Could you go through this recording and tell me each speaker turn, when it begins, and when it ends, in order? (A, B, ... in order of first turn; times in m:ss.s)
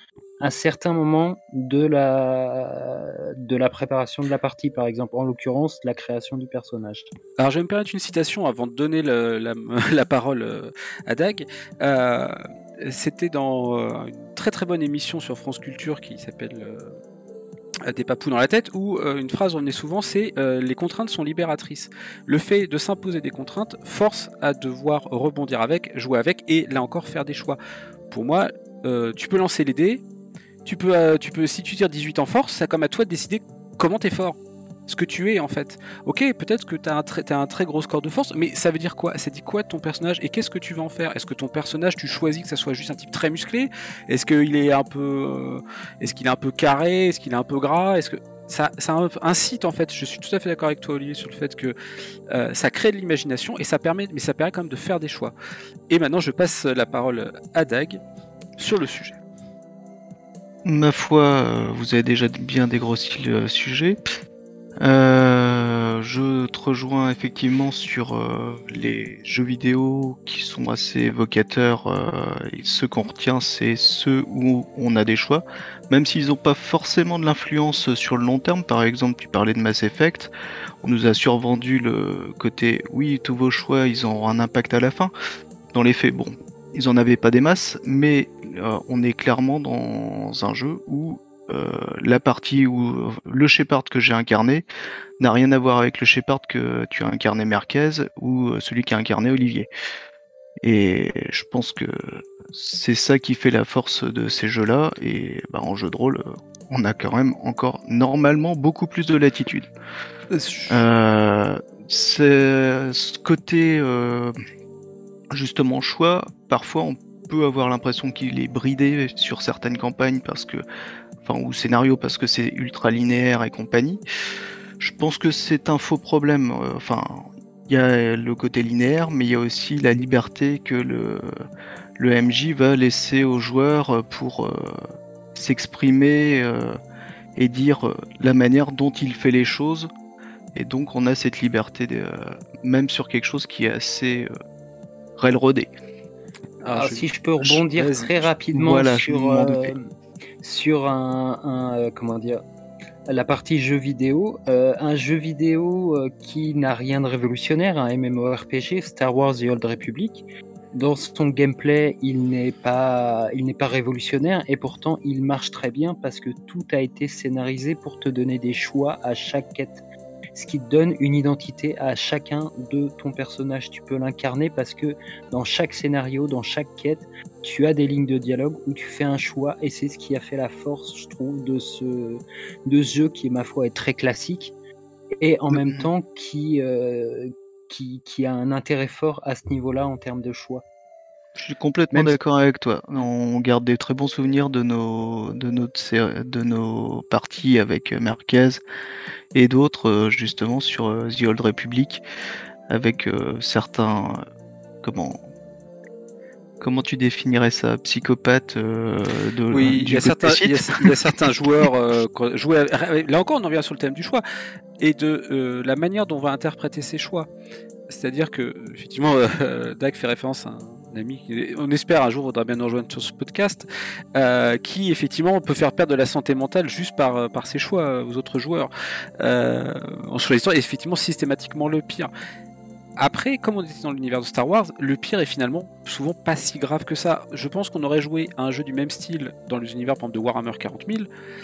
0:00.4-0:07.1 A
0:07.4-0:17.0 B
0:17.9-0:27.6 B
0:28.1-0:30.0 B
0:30.6-0:51.7 B
0:52.3-0:55.3 B
0:55.9-0:58.0 B
0:58.6-0:59.2 B
1:00.6-1:04.0 C
1:04.8-1:20.3 C
1:20.8-1:25.1 C
1:25.7-1:34.7 C
1:35.2-1:39.7 C
1:40.6-1:49.7 C
1:50.3-1:50.8 B
1:50.7-1:54.4 C
1:55.3-2:00.6 C
2:01.2-2:04.0 C
2:04.8-2:11.3 C
2:12.0-2:16.8 C
2:17.4-2:19.9 C
2:20.6-2:24.3 C
2:25.2-2:25.7 C
2:26.6-2:28.2 B
2:26.7-2:29.9 A
2:28.5-2:29.7 C
2:30.4-2:32.4 A
2:33.1-2:49.8 A
2:50.4-3:04.6 A
3:05.2-3:10.6 A
3:05.5-3:05.9 C
3:11.4-3:18.6 C
3:19.3-3:22.0 C
3:22.7-3:24.2 C
3:24.8-3:25.2 C
3:26.6-3:30.9 C
3:29.5-3:34.2 B
3:34.8-3:37.3 B
3:37.9-3:52.1 B
3:53.0-4:01.1 B